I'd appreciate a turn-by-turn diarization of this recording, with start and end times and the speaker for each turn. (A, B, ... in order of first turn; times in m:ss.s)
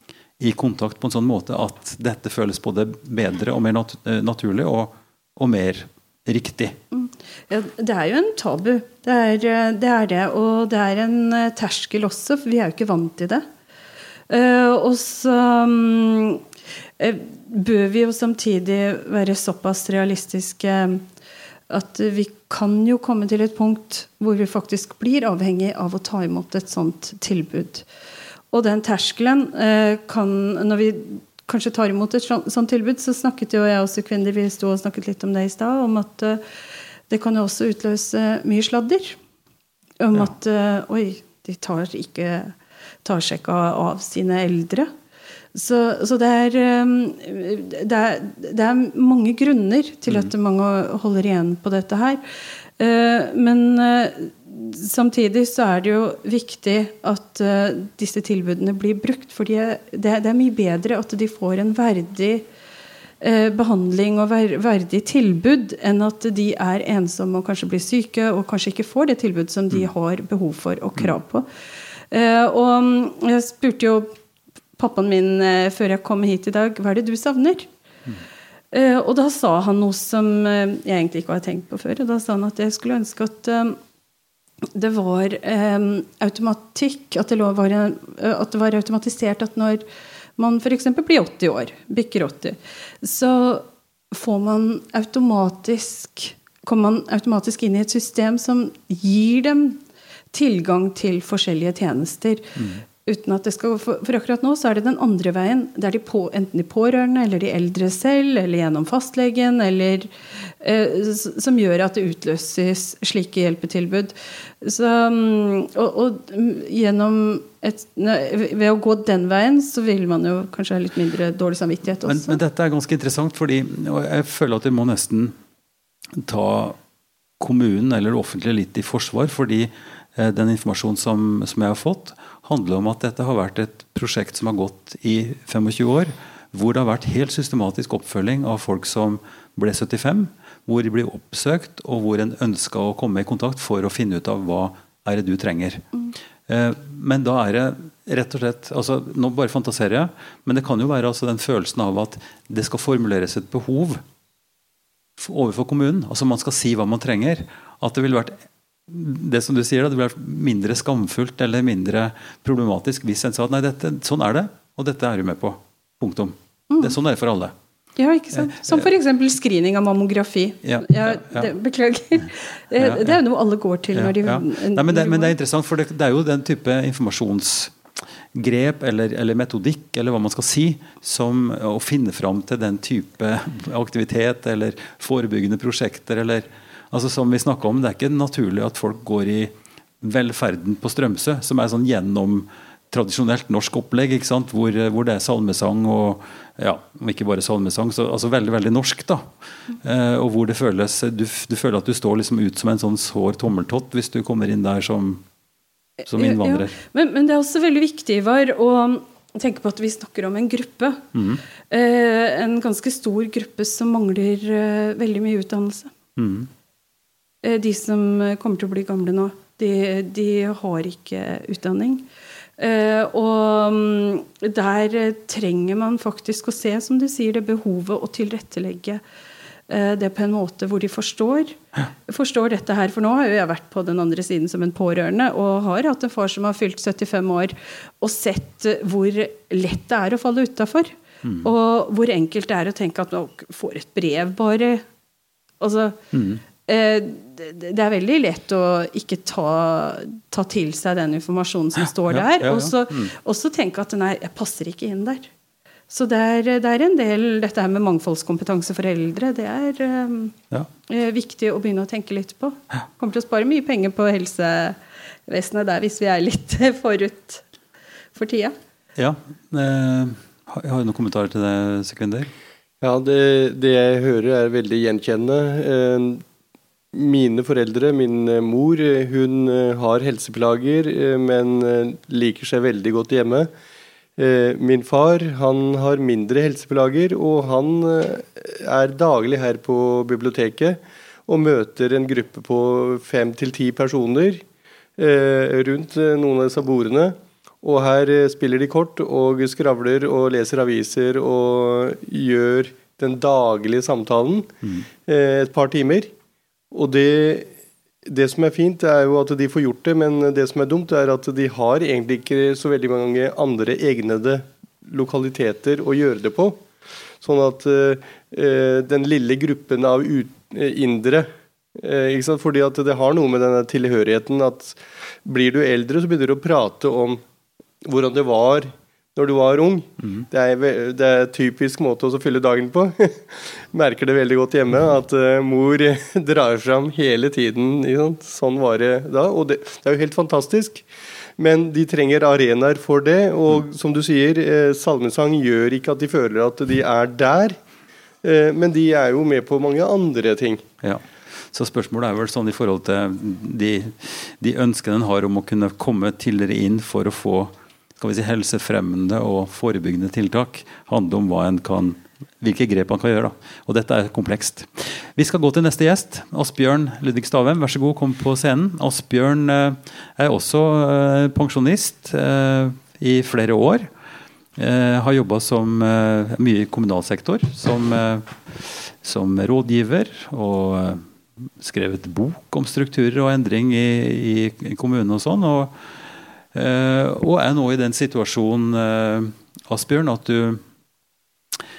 0:00.4-0:06.8 A
0:06.9-0:13.4 B
0:14.3-0:16.4 B
0:17.0-0:21.0 B
0:21.7-0:27.8 B
0:28.5-0:36.4 B
0:37.1-0:39.2 B
0:40.0-0:44.9 B
0:45.5-0:52.2 B
0:52.8-1:02.4 B
1:03.2-1:11.4 B
1:12.1-1:14.1 B
1:14.8-1:17.7 B
1:18.7-1:23.8 B
1:24.7-1:29.8 B
1:30.4-1:39.8 B
1:40.3-1:50.1 B
1:42.6-1:42.8 A
1:50.6-2:02.4 B
2:02.0-2:05.4 A
2:06.2-2:06.8 A
2:07.4-2:25.9 A
2:26.5-2:34.0 A
2:35.2-2:47.5 A
2:46.7-2:47.0 B
2:48.0-2:55.3 B
2:48.3-2:48.9 A
2:50.6-2:51.5 A
2:52.8-2:53.2 A
2:53.9-2:57.8 A
2:58.3-3:19.3 A
3:19.8-3:25.2 A
3:26.1-3:26.8 A
3:26.1-3:31.0 B
3:31.1-3:31.4 A
3:31.7-3:35.9 B
3:36.2-3:36.5 A
3:37.4-3:42.0 B
3:42.6-3:49.0 B
3:49.7-4:04.8 B
4:01.2-4:01.5 A
4:05.6-4:06.0 B
4:06.1-4:06.4 A
4:06.6-4:15.3 B
4:12.1-4:13.1 A
4:15.9-4:20.4 B
4:20.9-4:27.4 B
4:28.1-4:28.5 B
4:29.0-4:32.3 A
4:32.8-4:36.2 C
4:36.9-4:43.5 C
4:44.2-4:54.4 C
4:55.0-5:06.1 C
5:06.7-5:07.5 C
5:08.0-5:16.6 C
5:17.2-5:27.2 C
5:27.8-5:40.8 C
5:41.4-5:47.6 C
5:48.2-5:50.6 C
5:50.8-6:13.9 A
6:14.6-6:21.1 A
6:21.6-6:25.7 A
6:26.5-6:30.6 A